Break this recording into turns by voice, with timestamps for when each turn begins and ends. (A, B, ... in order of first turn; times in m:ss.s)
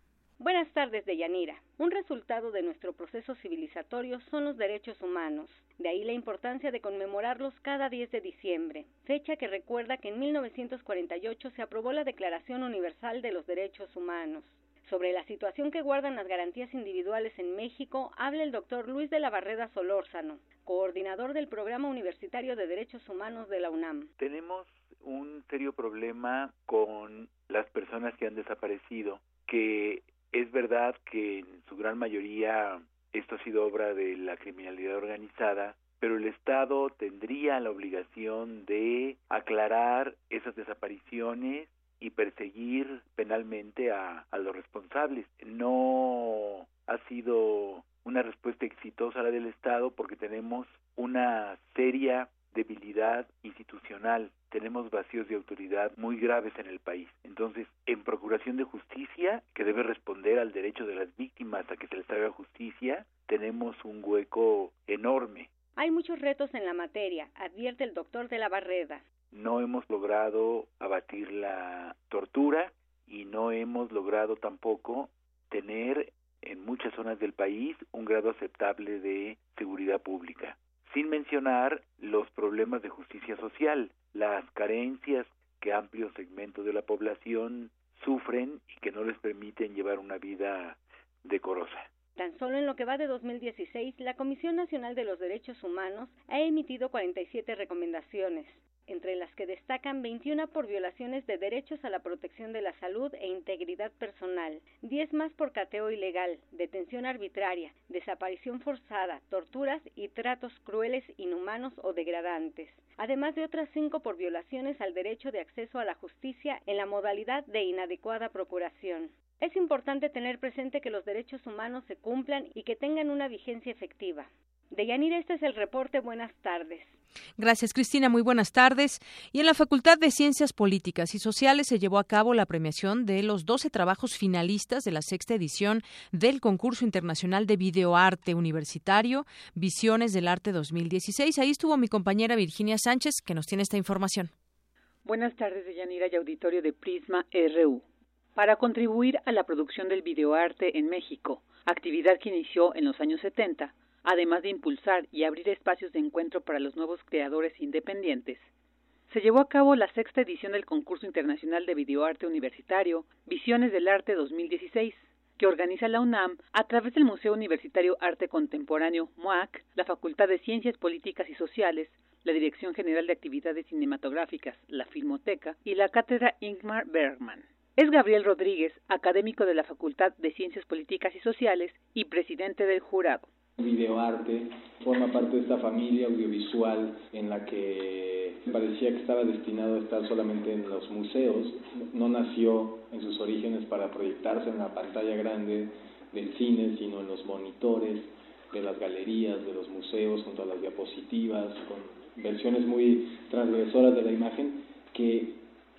0:00.4-0:24.1 A
0:24.2-1:05.5 B
1:05.8-1:09.0 A
1:09.3-1:31.9 B
1:32.2-2:07.0 A
2:07.4-2:24.3 C
2:25.0-2:27.8 D
2:28.4-2:38.5 D
2:39.1-3:03.3 D
3:03.6-3:25.4 E